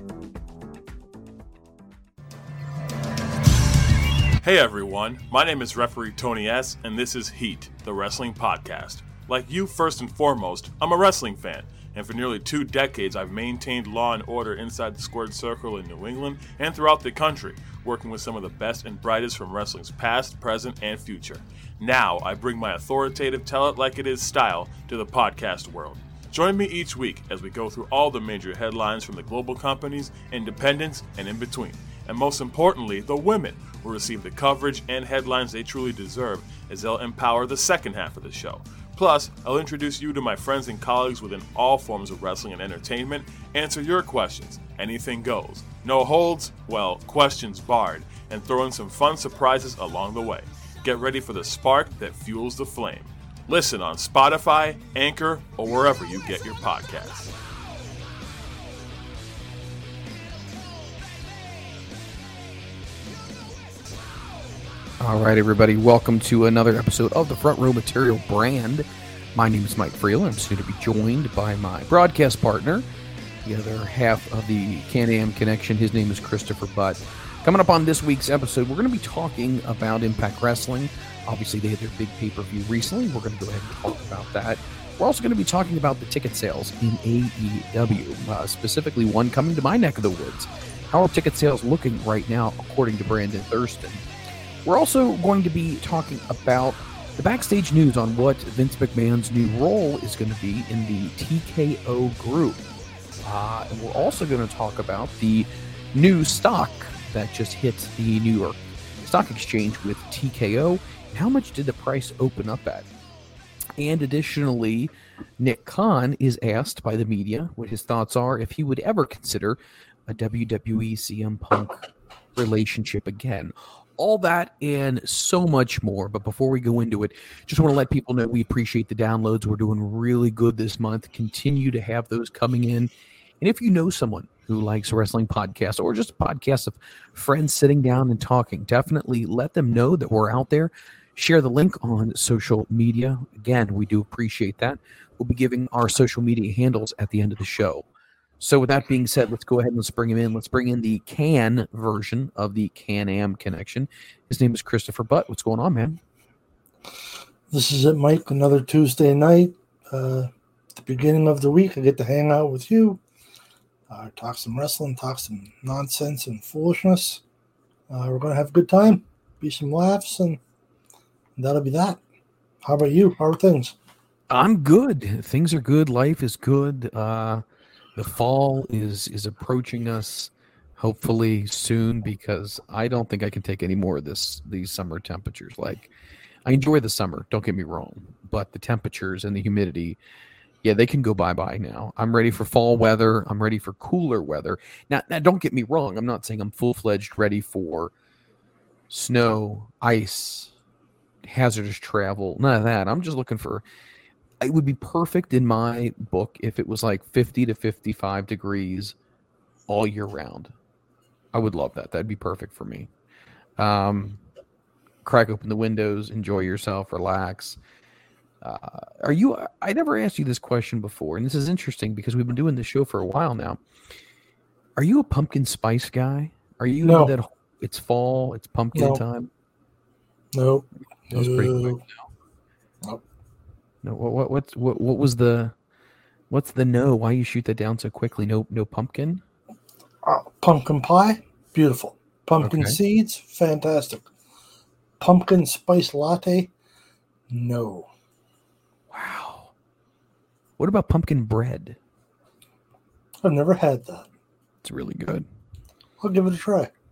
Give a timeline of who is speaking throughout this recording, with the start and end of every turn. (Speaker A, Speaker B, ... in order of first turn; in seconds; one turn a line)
Speaker A: 4.4-57.3
Speaker B: 65.0-72.8
Speaker B: 73.4-94.0
Speaker B: 94.6-102.6
Speaker B: 103.2-112.9
Speaker B: 113.8-121.8
Speaker B: 122.3-132.9
Speaker B: 133.4-147.8
Speaker B: 148.4-156.0
Speaker C: 157.5-163.0
Speaker C: 163.9-167.2
Speaker C: 167.9-170.4
Speaker C: 171.4-172.0
Speaker C: 172.6-173.7
Speaker B: 174.3-177.4
Speaker B: 177.9-185.9
Speaker B: 186.4-190.0
Speaker B: 190.6-197.9
Speaker B: 198.9-200.5
Speaker B: 201.2-203.6
Speaker B: 204.4-208.9
Speaker B: 209.7-210.5
Speaker B: 211.3-212.9
Speaker B: 213.6-214.2
Speaker B: 215.0-217.6
Speaker B: 218.4-223.6
Speaker B: 224.8-229.3
Speaker C: 226.8-227.1
Speaker C: 228.7-229.0
Speaker C: 230.3-231.8
Speaker B: 231.1-231.8
Speaker B: 233.8-235.5
Speaker B: 236.3-239.2
Speaker C: 240.0-244.1
Speaker B: 242.4-242.8
Speaker C: 245.0-246.5
Speaker C: 247.3-247.9
Speaker B: 248.9-249.5
Speaker B: 250.6-251.8
Speaker C: 253.2-254.1
Speaker B: 254.6-255.2
Speaker C: 256.0-256.7